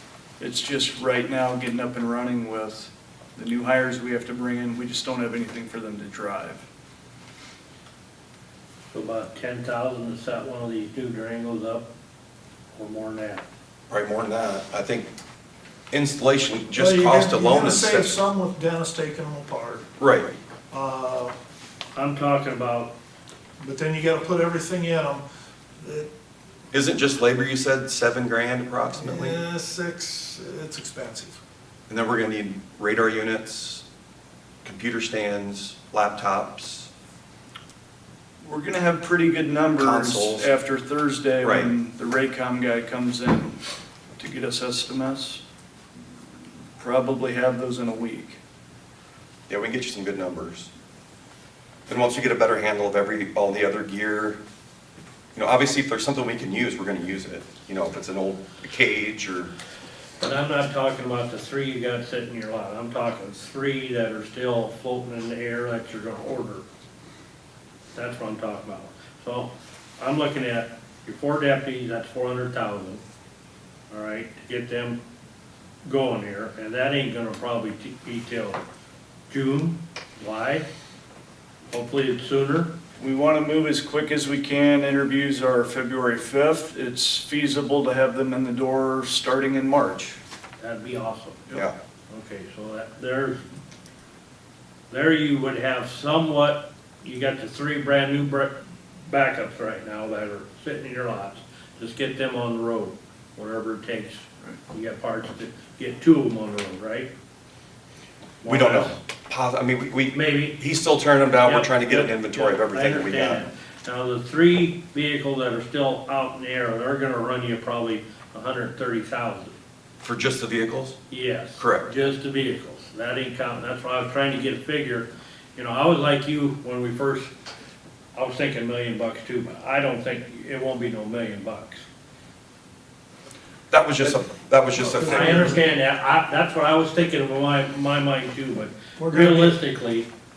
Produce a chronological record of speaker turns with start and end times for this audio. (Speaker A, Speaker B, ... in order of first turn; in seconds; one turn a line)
Speaker A: 0.4-6.7
Speaker B: 8.9-11.9
Speaker B: 12.7-13.4
Speaker C: 13.9-15.1
Speaker C: 15.9-18.2
Speaker D: 16.7-19.8
Speaker C: 20.0-20.3
Speaker D: 20.7-21.3
Speaker B: 21.9-22.9
Speaker D: 23.6-25.2
Speaker D: 25.8-26.1
Speaker C: 26.7-29.4
Speaker D: 29.0-31.3
Speaker C: 31.9-33.8
Speaker C: 34.6-36.9
Speaker A: 38.4-43.6
Speaker C: 39.8-40.5
Speaker C: 41.4-41.7
Speaker A: 44.2-45.4
Speaker A: 46.8-48.4
Speaker C: 49.5-50.7
Speaker C: 51.9-54.4
Speaker C: 55.3-59.5
Speaker B: 60.2-66.6
Speaker B: 67.9-73.0
Speaker B: 73.9-75.0
Speaker B: 75.8-78.6
Speaker B: 79.3-80.7
Speaker B: 81.7-82.7
Speaker A: 83.0-90.2
Speaker B: 90.6-91.4
Speaker B: 92.1-93.4
Speaker B: 94.9-107.1
Speaker B: 108.4-109.0
Speaker C: 108.4-113.4
Speaker B: 110.1-110.6
Speaker B: 111.4-119.5
Speaker C: 120.0-121.0
Speaker B: 121.1-127.3
Speaker C: 121.6-121.9
Speaker B: 128.1-131.8
Speaker C: 133.7-135.6
Speaker D: 134.7-135.6
Speaker B: 135.0-140.1
Speaker D: 139.0-139.6